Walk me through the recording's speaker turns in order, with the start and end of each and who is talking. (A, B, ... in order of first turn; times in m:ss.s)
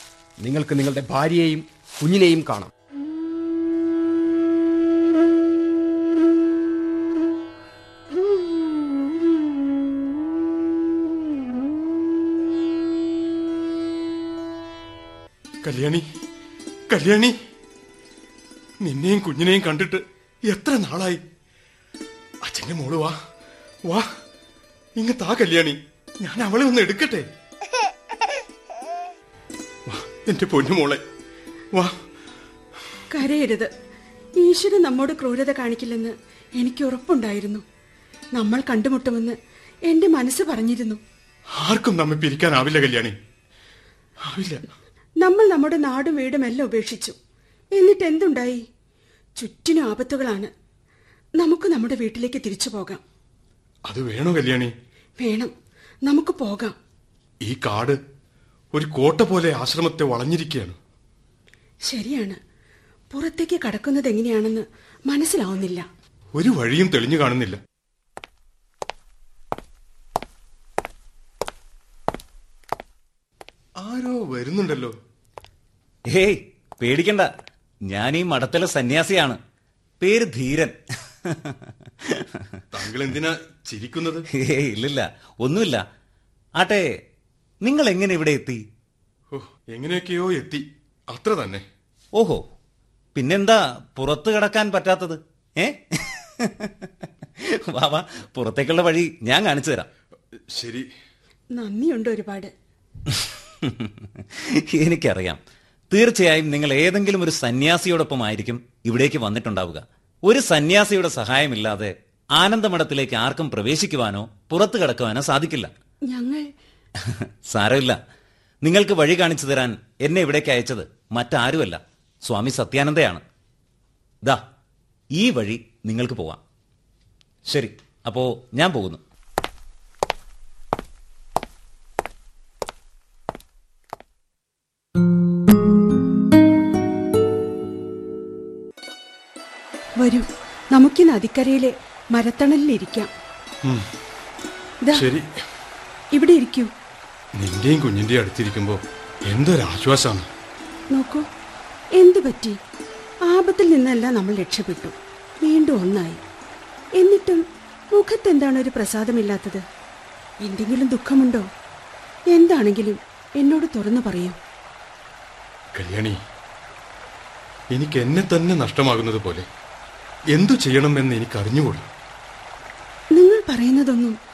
0:00.4-0:02.7 A
0:15.6-0:16.0 B
0:16.9-0:17.3 B
0:18.8-0:21.2 B
0:22.4-0:23.2 B
0:25.0-0:27.3 B
0:29.9-0:31.0 B
0:33.1-0:33.7 C
0:34.4-0:37.6 C
0:38.4-0:41.0 C
0:41.6-0:43.2 B
0:44.2-0:44.7 B
0:45.2-0:47.2 C
0:47.8-0:48.6 C
0:49.4-0:50.5 C
0:51.4-0:53.0 C
0:53.9-0:54.7 B
0:55.2-0:55.5 C
0:56.0-0:56.8 C
0:57.4-0:58.0 B
0:58.7-1:00.8 B
1:01.9-1:02.4 C
1:03.1-1:05.9 C
1:06.4-1:07.6 B
1:13.8-1:15.0 B
1:16.1-1:17.3 D
1:17.9-1:19.4 D
1:20.0-1:22.2 D
1:22.7-1:24.3 B
1:24.3-1:25.8 D
1:26.6-1:27.0 D
1:27.6-1:28.7 D
1:29.3-1:31.7 B
1:33.2-1:36.7 D
1:37.4-1:39.9 D
1:40.5-1:40.9 B
1:41.6-1:42.5 C
1:43.6-1:55.7 D
1:56.1-1:56.5 C
1:57.5-1:58.0 D
1:58.6-2:03.2 D
2:05.1-2:06.4 D
2:07.5-2:09.0 D
2:20.0-2:23.1 C
2:24.9-2:25.3 B
2:26.1-2:26.7 C
2:27.4-2:30.3 B
2:30.9-2:31.3 C
2:32.0-2:32.6 C
2:33.3-2:36.2 C
2:37.0-2:39.6 C
2:40.4-2:41.5 C
2:42.3-2:44.4 C
2:45.8-2:46.2 B
2:47.7-2:49.5 B
2:50.3-2:51.9 B
2:53.2-2:54.2 C